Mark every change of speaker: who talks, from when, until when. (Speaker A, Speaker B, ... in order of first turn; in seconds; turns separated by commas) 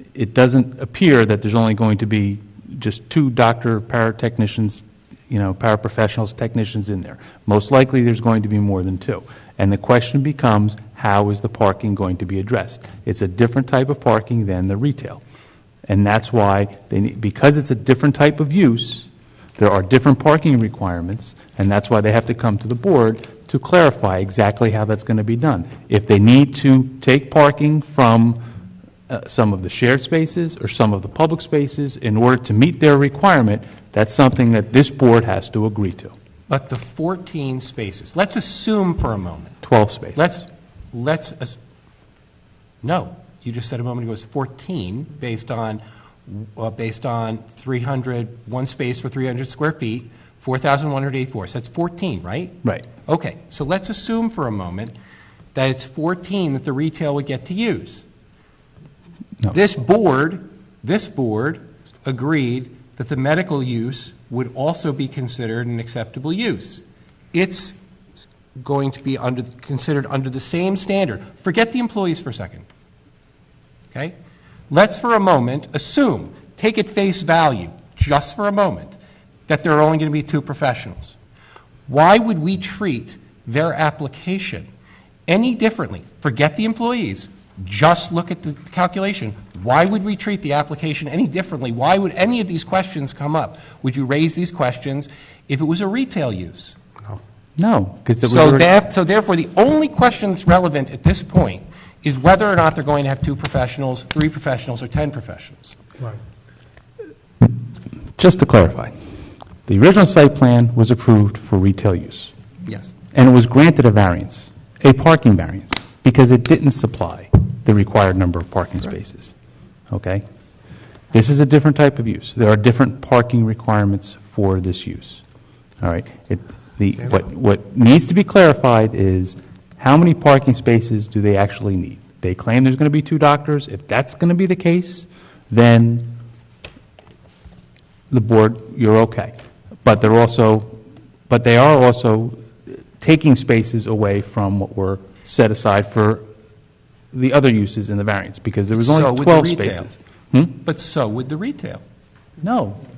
Speaker A: 0.1-15.2, Speaker A: 15.9-28.4, Speaker A: 29.1-36.1, Speaker B: 36.5-39.6, Speaker A: 39.6-40.4, Speaker B: 40.1-41.6, Speaker B: 42.8-55.0, Speaker B: 55.5-58.0, Speaker B: 59.5-67.8, Speaker B: 68.5-72.7, Speaker B: 74.7-79.0, Speaker B: 79.5-81.2, Speaker B: 81.9-84.7, Speaker B: 85.3-96.8, Speaker A: 97.6-98.7, Speaker B: 98.2-105.8, Speaker A: 108.2-108.9, Speaker A: 109.7-112.3, Speaker B: 112.7-112.9, Speaker A: 113.1-119.3, Speaker A: 119.9-120.2, Speaker A: 121.1-125.2, Speaker A: 125.8-136.1, Speaker A: 138.1-140.8, Speaker A: 141.3-146.2, Speaker A: 147.1-150.6, Speaker B: 148.7-149.9, Speaker B: 150.6-151.8, Speaker A: 152.4-152.8